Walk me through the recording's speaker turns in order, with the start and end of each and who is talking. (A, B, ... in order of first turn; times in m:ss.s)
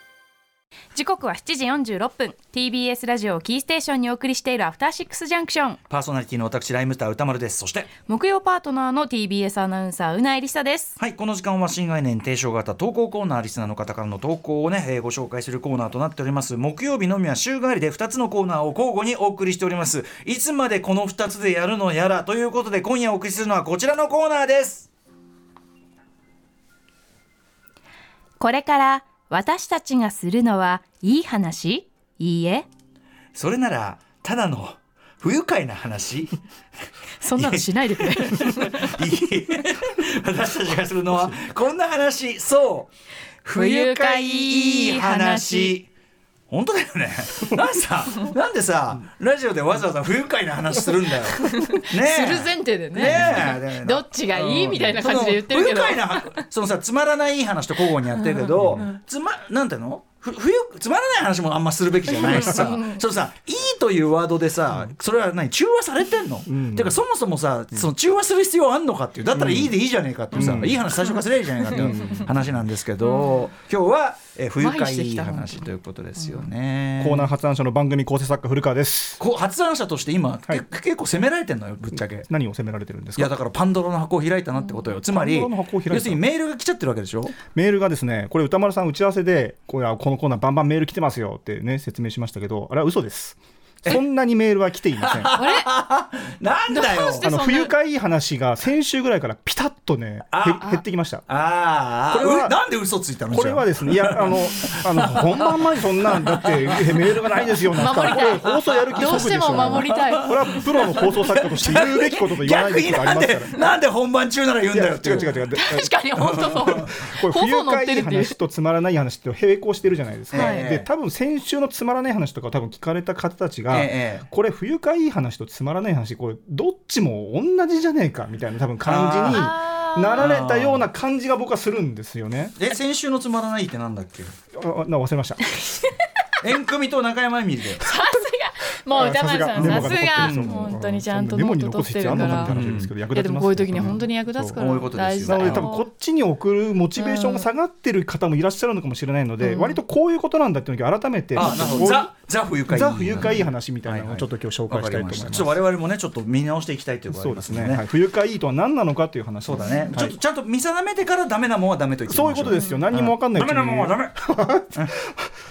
0:00.9-0:05.8 A
0:05.9-0:07.9 B
0:08.0-0:11.0 A
0:11.0-0:24.9 B
0:28.4-0:32.6 A
0:33.3-0:36.4 B
0:37.2-0:39.0 A
0:37.4-0:42.9 B
0:43.4-0:45.9 B
0:43.5-0:45.8 A
0:46.5-1:17.3 B
0:51.4-0:56.4 A
0:58.1-0:58.5 A
0:58.6-0:58.9 C
1:02.1-1:03.0 A
1:02.2-1:02.7 C
1:06.5-1:07.0 C
1:09.3-1:09.7 C
1:10.3-1:10.8 C
1:11.7-1:12.6 C
1:13.0-1:13.5 A
1:14.6-1:16.4 A
1:17.0-1:19.2 C
1:19.2-1:22.3 B
1:22.2-1:23.4 C
1:23.2-1:27.4 B
1:25.1-1:26.2 C
1:27.5-1:35.3 C
1:35.0-1:37.3 B
1:35.3-1:35.7 A
1:36.7-1:37.7 A
1:37.2-1:41.2 C
1:40.3-1:48.1 B
1:42.1-1:42.6 C
1:43.3-1:53.6 C
1:47.8-1:51.2 A
1:48.8-1:55.4 B
1:54.7-2:12.5 C
1:55.2-1:58.4 A
1:56.2-1:56.8 B
2:00.3-2:00.9 B
2:00.3-2:00.7 A
2:03.7-2:04.3 B
2:08.8-2:09.5 B
2:09.3-2:10.3 A
2:10.1-2:10.8 B
2:12.6-2:14.3 B
2:14.5-2:15.5 C
2:15.6-2:15.9 A
2:16.4-2:17.9 B
2:17.8-2:22.6 A
2:18.9-2:24.6 C
2:19.5-2:20.7 B
2:22.1-2:22.9 B
2:23.1-2:25.9 A
2:23.7-2:24.0 B
2:24.5-2:25.7 B
2:25.2-2:32.1 C
2:26.9-2:27.5 A
2:29.4-2:29.8 A
2:31.3-2:37.8 B
2:31.4-2:31.9 A
2:32.6-2:35.6 C
2:37.1-2:40.2 C
2:39.5-2:44.9 B
2:42.1-2:45.3 C
2:42.5-2:42.8 A